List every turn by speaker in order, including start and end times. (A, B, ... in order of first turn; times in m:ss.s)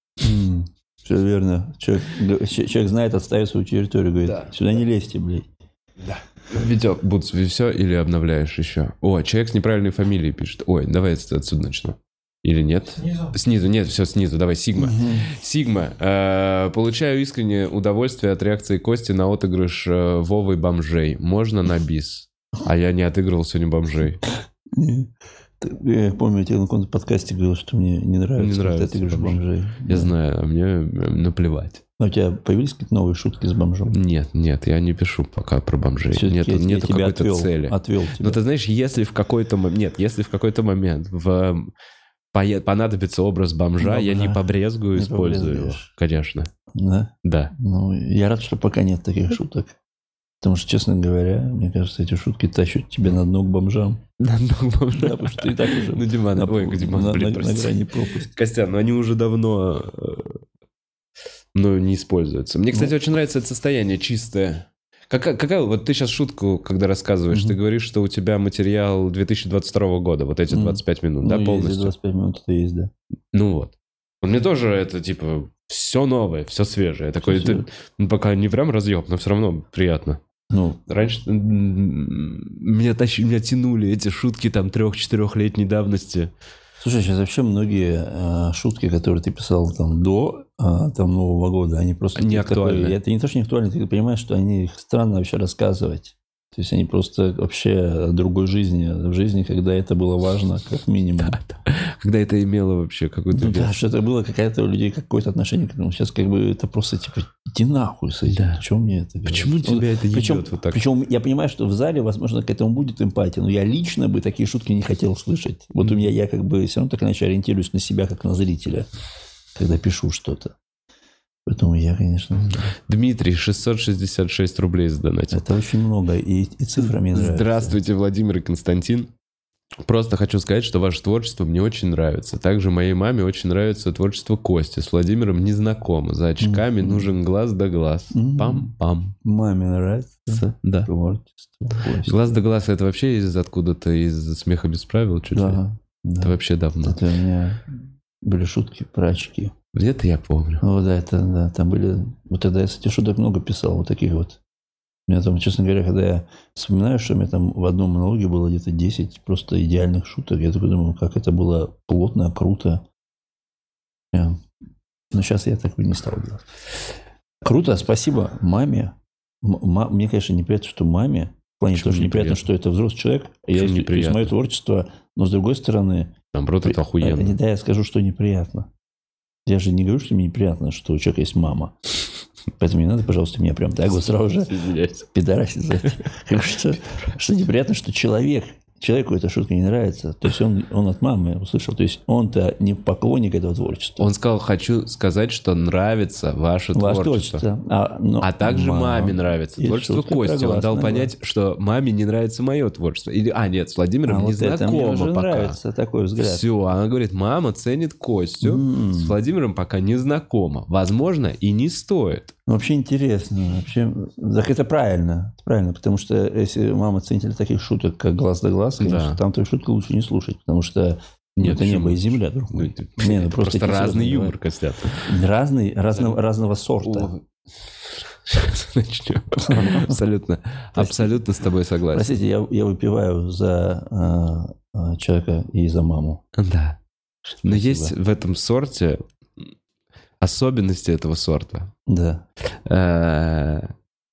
0:00.2-0:05.5 A
0:04.2-0:04.6 B
0:06.0-0:24.2 B
0:14.8-0:15.3 A
0:24.7-0:30.1 A
0:28.4-0:31.8 B
0:32.0-0:34.0 A
0:33.9-0:41.7 B
0:36.1-0:38.4 A
0:42.3-0:46.5 B
0:43.8-0:45.9 A
0:46.7-0:49.8 A
0:47.2-0:47.5 B
0:50.4-0:54.0 A
0:54.2-1:00.4 B
0:54.9-0:58.3 A
1:01.5-1:11.9 B
1:07.3-1:07.6 A
1:10.5-1:12.9 A
1:13.3-1:20.2 B
1:17.2-1:17.7 A
1:20.5-1:20.8 A
1:20.9-1:26.3 B
1:26.8-1:41.4 A
1:32.1-1:33.0 B
1:41.2-1:43.8 B
1:43.3-1:58.9 A
1:48.3-1:48.6 B
1:49.3-1:50.8 B
1:55.8-1:56.1 B
1:59.6-2:00.6 A
2:01.4-2:02.8 A
2:02.8-2:05.4 B
2:05.3-2:07.8 A
2:06.8-2:09.1 B
2:09.8-2:19.2 B
2:16.4-2:17.1 A
2:18.1-2:18.7 A
2:19.2-2:22.4 A
2:20.3-2:20.9 B
2:22.0-2:25.6 B
2:25.3-2:29.5 A
2:26.2-2:27.0 B
2:29.7-2:30.6 B
2:30.6-2:34.4 A
2:35.1-2:42.8 A
2:44.1-2:44.4 A
2:45.1-2:46.4 A
2:47.4-2:58.7 A
2:51.7-2:52.4 B
2:53.5-2:54.3 B
2:56.3-2:57.4 B
2:59.4-3:01.7 A
3:02.6-3:04.6 A
3:04.3-3:05.1 B
3:05.1-3:14.1 A
3:14.0-3:17.4 B
3:16.7-3:21.1 A
3:18.2-3:25.6 B
3:24.0-3:26.4 A
3:26.2-3:32.3 B
3:28.4-3:29.2 A
3:32.5-3:44.3 A
3:38.8-3:39.2 B
3:41.4-3:45.0 B
3:45.0-3:47.1 A
3:45.9-3:46.2 B
3:46.8-3:52.1 B
3:49.4-3:50.0 A
3:50.8-3:51.2 A
3:51.9-3:56.2 A
3:56.3-3:56.8 B
3:57.3-3:57.9 A
3:57.4-3:59.5 B
4:00.2-4:01.7 B
4:01.9-4:02.2 A
4:02.5-4:03.7 B